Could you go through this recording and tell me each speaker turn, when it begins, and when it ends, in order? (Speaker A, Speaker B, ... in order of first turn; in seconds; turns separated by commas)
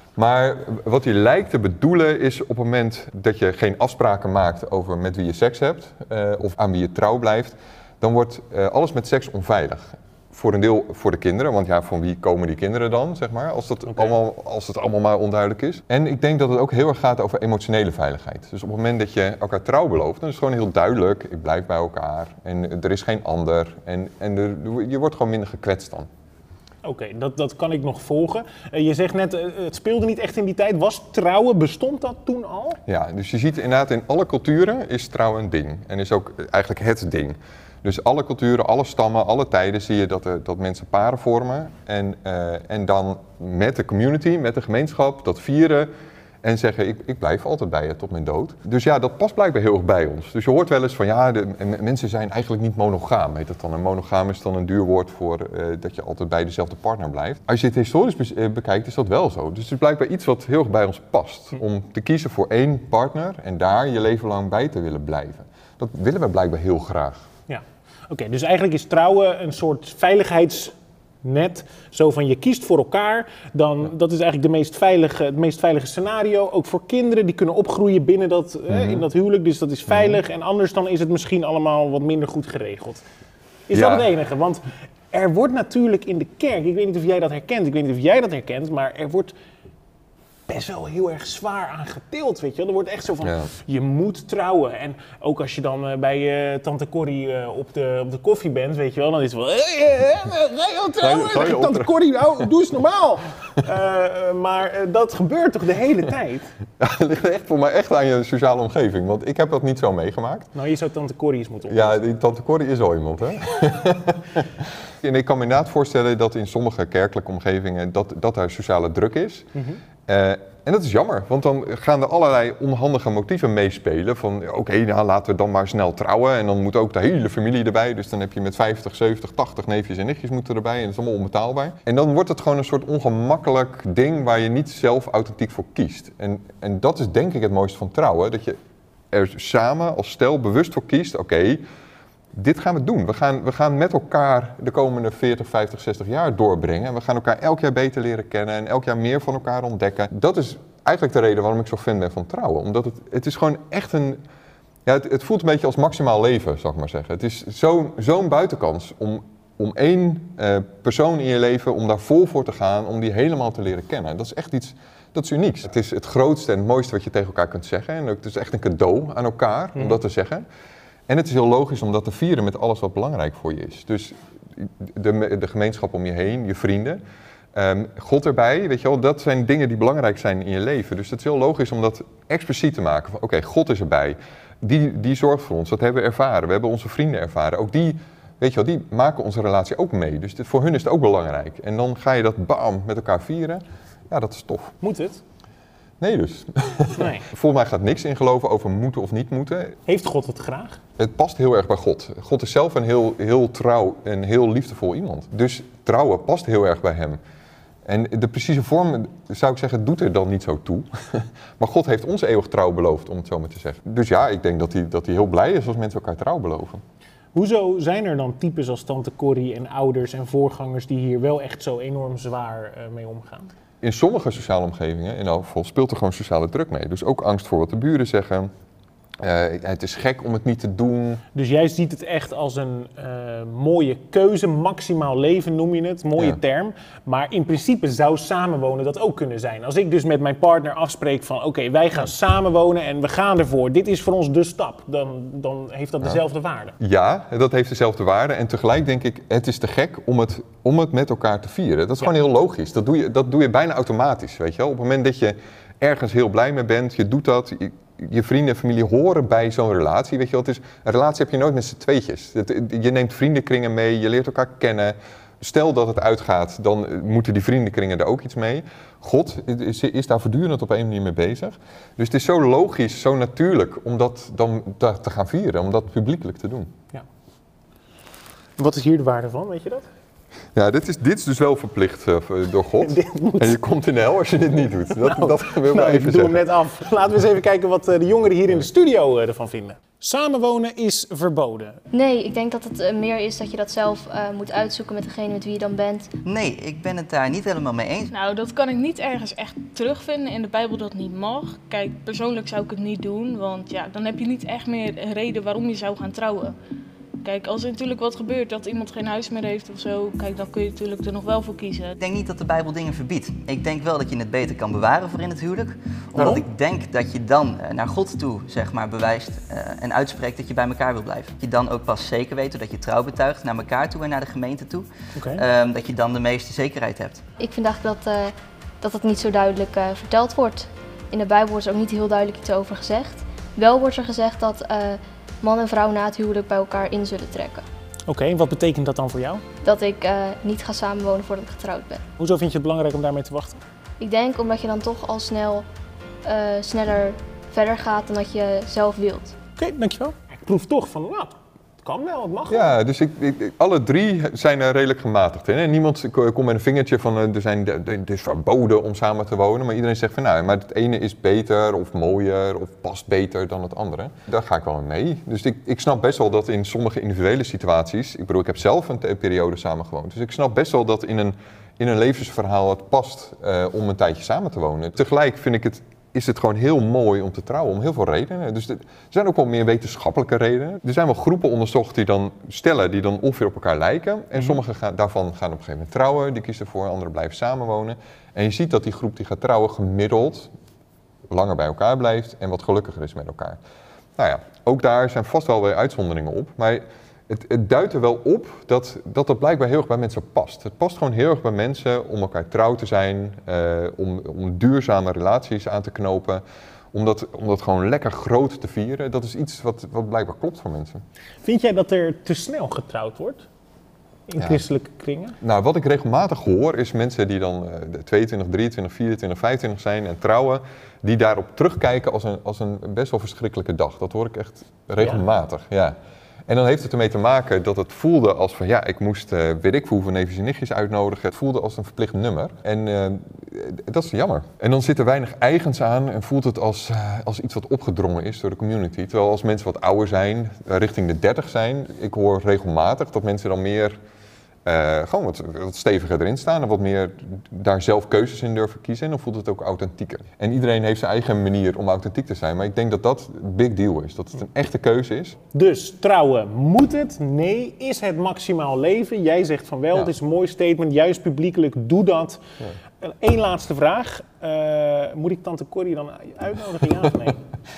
Speaker A: 0.2-26.1, Speaker B: 26.8-32.8, Speaker A: 32.9-45.9, Speaker A: 46.4-67.2, Speaker B: 67.5-83.0, Speaker A: 78.7-79.0, Speaker A: 79.9-80.2, Speaker B: 83.7-89.3, Speaker A: 83.7-84.1, Speaker B: 90.5-106.5, Speaker A: 93.2-93.5, Speaker A: 101.0-101.9, Speaker A: 106.8-110.5, Speaker B: 110.5-112.0, Speaker A: 111.7-114.5, Speaker A: 115.0-119.5, Speaker A: 120.1-138.6, Speaker A: 139.1-141.6, Speaker A: 142.3-154.2, Speaker A: 154.8-170.4, Speaker A: 171.1-177.0, Speaker A: 177.5-194.8, Speaker B: 194.8-195.2, Speaker A: 196.0-199.8, Speaker B: 197.0-197.2, Speaker B: 199.9-200.8, Speaker A: 201.0-207.2, Speaker A: 207.9-216.8, Speaker B: 217.3-223.5, Speaker A: 223.8-228.5, Speaker A: 229.2-231.2, Speaker B: 231.3-246.8, Speaker A: 246.8-276.7, Speaker B: 278.6-279.9, Speaker A: 280.6-286.4, Speaker B: 282.8-283.6, Speaker B: 285.0-291.8, Speaker C: 291.9-296.1, Speaker D: 296.2-298.1, Speaker E: 298.1-306.6, Speaker E: 307.2-312.0, Speaker D: 312.0-327.2, Speaker B: 325.1-325.4, Speaker C: 327.4-337.6, Speaker B: 338.1-339.4, Speaker C: 339.6-342.0, Speaker B: 342.2-343.6, Speaker C: 344.0-345.6, Speaker C: 346.2-349.4, Speaker B: 349.6-352.7, Speaker A: 352.5-390.5, Speaker A: 391.3-393.6, Speaker A: 394.2-411.0, Speaker B: 411.4-413.4, Speaker B: 414.3-415.4, Speaker A: 415.4-426.0, Speaker A: 426.5-444.0, Speaker A: 444.6-455.4, Speaker B: 455.5-462.4, Speaker B: 463.0-467.4